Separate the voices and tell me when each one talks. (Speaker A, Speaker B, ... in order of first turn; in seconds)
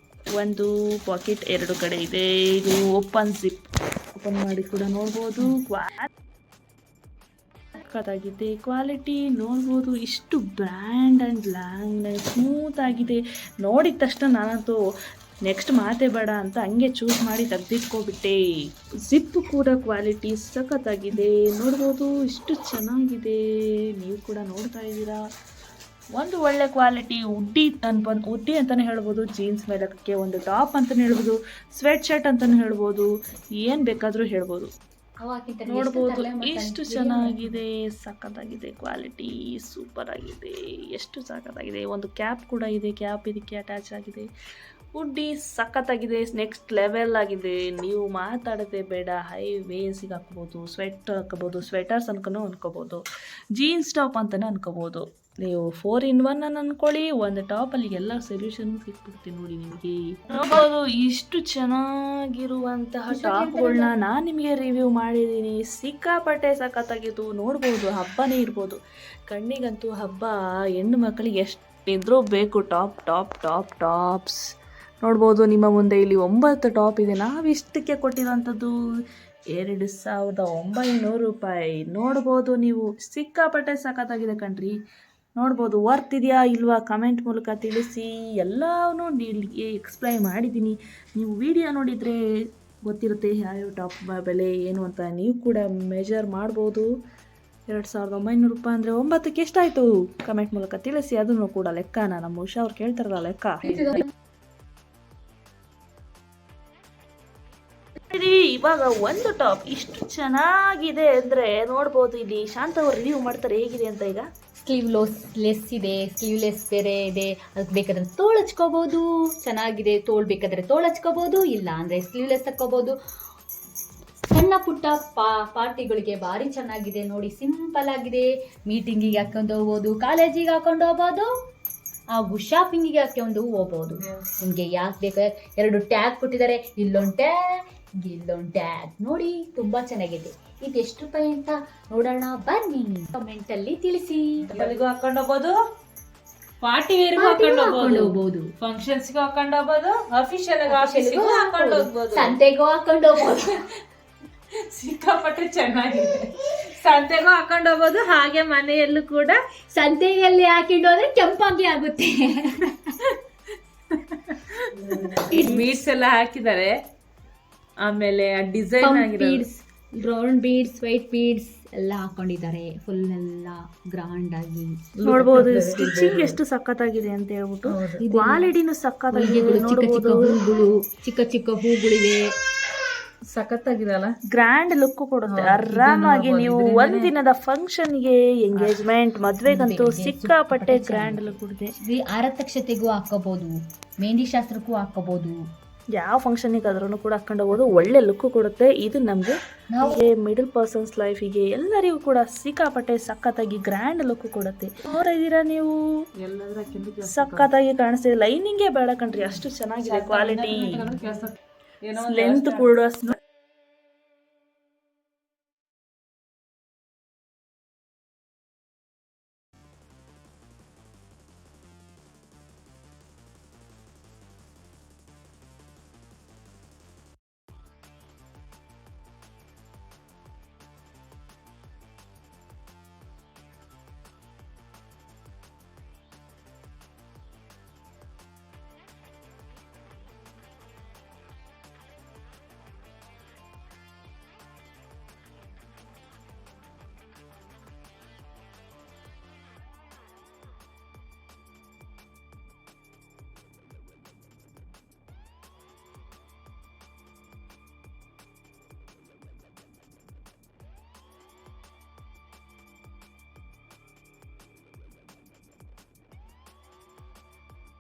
Speaker A: 0.4-3.7, 4.2-6.0, 7.9-14.8, 15.5-18.4, 19.1-23.4, 24.0-25.2, 26.2-33.1, 33.6-34.7, 35.7-44.3, 45.0-53.0, 53.6-61.8, 62.4-74.4, 75.0-78.7, 79.5-84.8, 85.4-92.2, 92.9-96.9, 97.7-104.0, 108.1-114.3, 175.0-180.3, 184.3-191.7, 195.9-205.8, 207.1-210.8, 212.0-213.2
Speaker B: 35.2-37.6, 63.1-63.9, 103.6-104.0, 114.6-122.9, 124.3-131.3, 132.1-144.5, 147.1-148.5, 150.6-153.6, 159.7-162.9, 164.9-165.7, 168.8-174.8, 178.0-178.5, 179.1-182.2, 189.4-195.4, 199.7-200.0
Speaker C: 134.1-134.4, 144.5-145.6, 146.6-152.4, 154.7-159.4, 163.9-166.8, 167.8-169.5, 175.0-176.4, 177.7-178.0, 183.3-184.1, 185.2-187.1, 206.2-207.5, 209.8-212.7